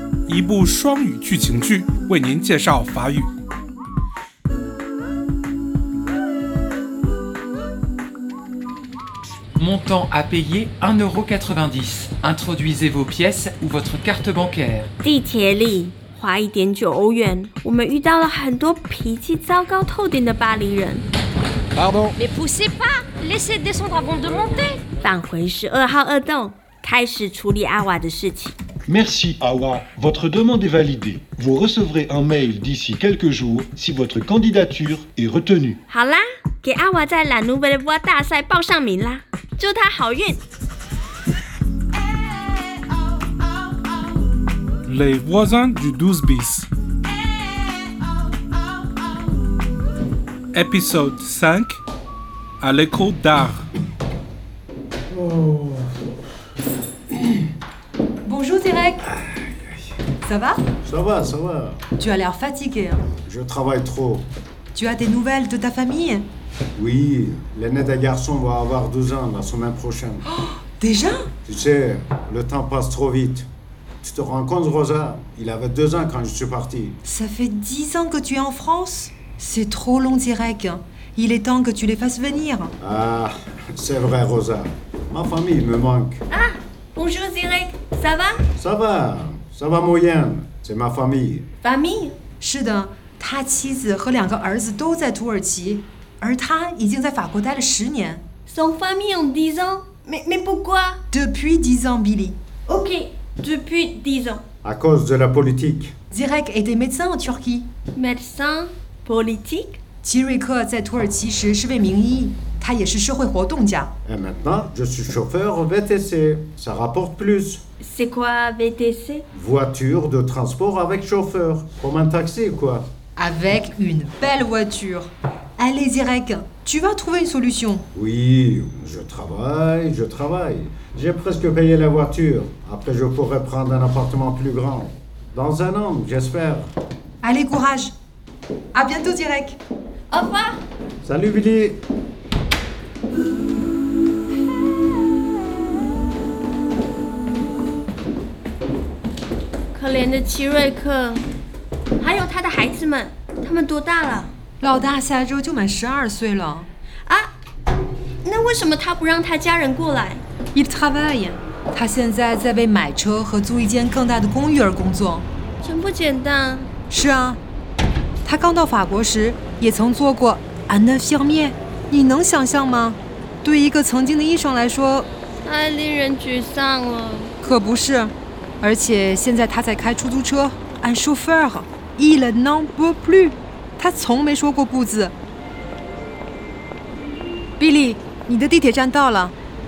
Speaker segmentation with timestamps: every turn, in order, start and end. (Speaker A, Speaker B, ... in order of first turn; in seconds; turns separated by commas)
Speaker A: 0.3-3.3, Speaker B: 9.6-14.9, Speaker C: 15.0-21.0, Speaker D: 22.2-24.8, Speaker C: 25.0-28.5, Speaker E: 28.9-35.8, Speaker C: 35.9-40.4, Speaker A: 44.9-46.7, Speaker A: 50.5-51.8, Speaker A: 52.6-53.7, Speaker F: 58.3-59.1, Speaker F: 60.2-60.6, Speaker G: 60.8-61.8, Speaker F: 62.0-63.0, Speaker G: 63.2-64.3, Speaker F: 64.7-66.3, Speaker G: 66.8-70.3, Speaker F: 70.3-71.3, Speaker G: 71.5-73.5, Speaker G: 74.0-77.0, Speaker F: 77.1-82.7, Speaker G: 82.8-86.2, Speaker C: 86.3-88.4, Speaker G: 88.5-91.5, Speaker C: 91.6-92.2, Speaker F: 92.4-98.2, Speaker C: 98.5-101.0, Speaker F: 101.1-102.4, Speaker C: 102.7-104.4, Speaker G: 104.6-105.9, Speaker F: 106.1-107.7, Speaker C: 108.0-109.8, Speaker F: 110.0-113.9, Speaker G: 114.0-117.6, Speaker C: 117.8-119.2, Speaker G: 119.3-122.9, Speaker F: 123.2-125.1, Speaker F: 125.6-127.8, Speaker G: 127.9-136.7, Speaker F: 137.3-137.9, Speaker F: 138.8-139.6, Speaker C: 140.1-140.6, Speaker G: 141.0-141.8, Speaker C: 149.7-151.2, Speaker C: 152.0-154.3, Speaker F: 154.6-156.7, Speaker C: 158.2-160.2, Speaker F: 160.5-165.2, Speaker C: 165.6-166.7, Speaker F: 166.9-167.4, Speaker F: 168.3-175.1, Speaker C: 175.4-177.3, Speaker F: 177.4-185.1, Speaker F: 187.6-189.3